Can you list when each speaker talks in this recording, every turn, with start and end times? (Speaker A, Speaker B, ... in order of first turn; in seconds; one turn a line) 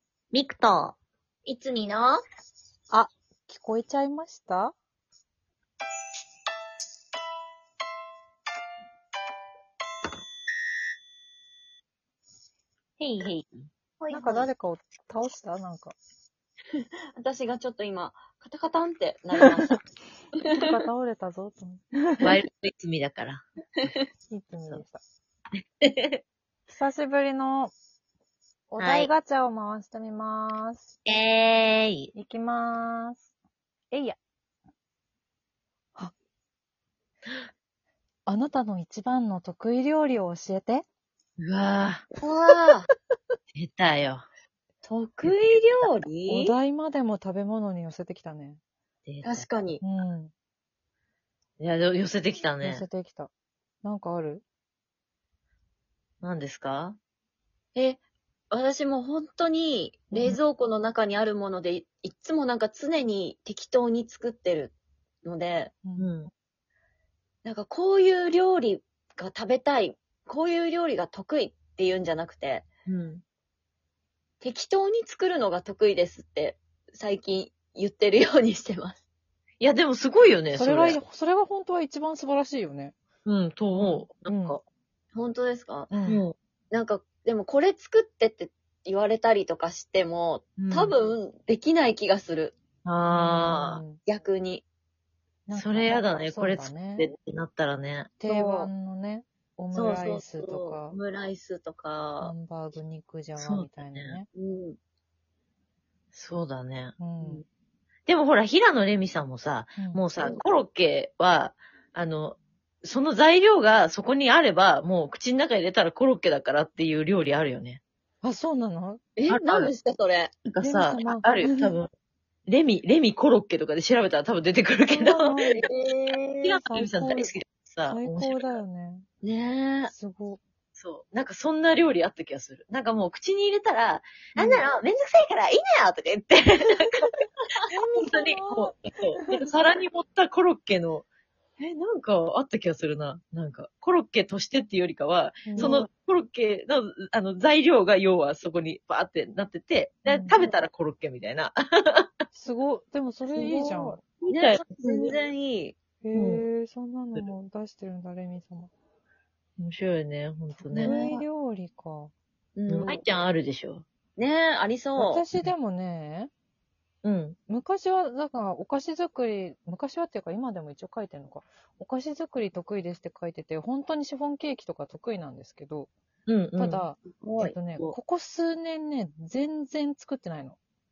Speaker A: 0.3-0.9
Speaker B: 1.4-2.2
Speaker C: 2.9-4.7
Speaker A: 13.0-13.6
Speaker B: 14.0-14.5
Speaker C: 14.1-15.9
Speaker B: 17.1-19.8
Speaker C: 20.5-22.4
Speaker A: 22.2-23.4
Speaker C: 24.3-25.0
Speaker A: 25.8-26.2
Speaker C: 26.7-27.7
Speaker C: 28.7-30.9
Speaker A: 28.8-29.1
Speaker A: 31.1-32.1
Speaker C: 32.1-33.3
Speaker C: 33.9-34.2
Speaker C: 38.2-40.8
Speaker A: 41.4-42.0
Speaker B: 42.2-42.9
Speaker A: 43.5-44.2
Speaker B: 44.8-46.5
Speaker C: 46.3-48.6
Speaker A: 49.0-49.5
Speaker B: 49.2-49.8
Speaker C: 49.8-50.3
Speaker A: 51.6-52.8
Speaker C: 52.6-53.3
Speaker C: 53.8-54.4
Speaker A: 56.2-57.0
Speaker B: 57.7-65.7
Speaker C: 65.8-66.2
Speaker A: 66.0-66.3
Speaker B: 67.4-72.7
Speaker A: 72.8-73.2
Speaker B: 74.4-79.0
Speaker A: 79.6-81.0
Speaker C: 80.5-83.0
Speaker A: 83.2-84.6
Speaker C: 83.7-84.6
Speaker B: 85.1-85.9
Speaker C: 85.9-86.2
Speaker A: 86.0-86.3
Speaker B: 86.7-92.5
Speaker A: 90.6-90.9
Speaker A: 92.8-93.8
Speaker C: 93.0-94.0
Speaker B: 94.0-94.6
Speaker C: 95.5-97.1
Speaker A: 95.5-98.2
Speaker C: 98.2-101.0
Speaker B: 98.3-98.7
Speaker B: 99.7-102.3
Speaker C: 102.2-104.3
Speaker A: 103.4-104.2
Speaker B: 104.3-104.8
Speaker A: 106.1-107.0
Speaker C: 107.0-107.4
Speaker A: 108.0-117.8
Speaker C: 109.8-110.0
Speaker C: 118.2-119.0
Speaker B: 119.2-120.3
Speaker A: 119.3-119.7
Speaker A: 120.4-121.9
Speaker C: 120.6-121.8
Speaker A: 122.5-125.5
Speaker C: 124.9-125.7
Speaker B: 125.6-126.6
Speaker A: 126.4-128.6
Speaker C: 126.6-129.1
Speaker A: 129.2-129.9
Speaker C: 129.9-130.4
Speaker A: 130.7-137.1
Speaker C: 137.7-139.4
Speaker A: 138.0-141.1
Speaker A: 141.6-152.1
Speaker C: 145.4-145.8
Speaker B: 145.6-145.9
Speaker C: 150.1-150.4
Speaker C: 152.3-154.0
Speaker B: 153.3-155.8
Speaker A: 154.1-155.1
Speaker C: 156.0-158.7
Speaker A: 156.1-156.4
Speaker A: 159.6-161.0
Speaker C: 160.5-162.1
Speaker B: 160.8-161.2
Speaker B: 162.6-163.0
Speaker A: 162.7-163.8
Speaker B: 164.2-165.2
Speaker C: 164.9-166.3
Speaker A: 167.0-167.4
Speaker C: 167.5-175.9
Speaker A: 176.3-176.9
Speaker C: 176.6-180.6
Speaker B: 177.2-177.5
Speaker A: 177.6-177.9